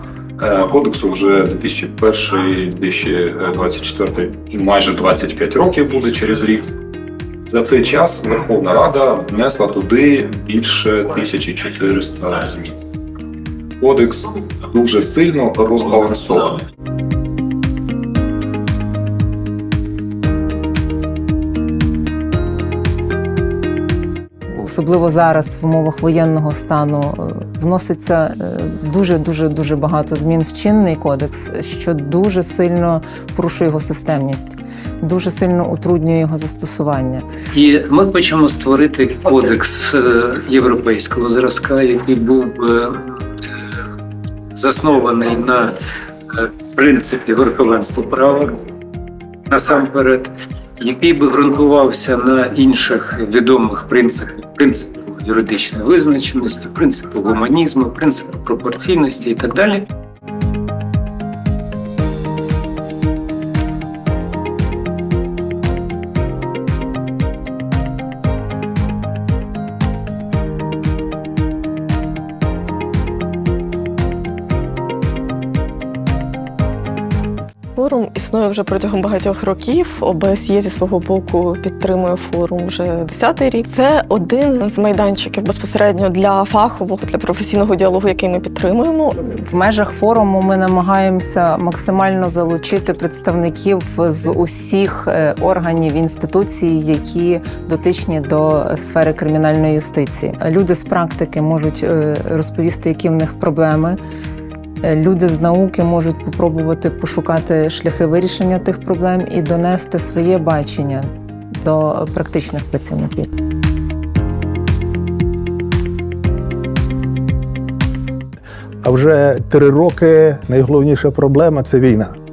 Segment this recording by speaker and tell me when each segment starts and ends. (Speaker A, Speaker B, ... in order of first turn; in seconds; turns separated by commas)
Speaker A: 0.4-6.7, Speaker A: 7.5-12.8, Speaker A: 13.8-16.6, Speaker B: 24.5-37.3, Speaker C: 37.5-43.2, Speaker C: 44.5-45.8, Speaker C: 46.3-48.6, Speaker C: 49.5-59.9, Speaker D: 77.8-89.2, Speaker B: 89.4-104.0, Speaker B: 104.8-113.3, Speaker E: 118.8-122.1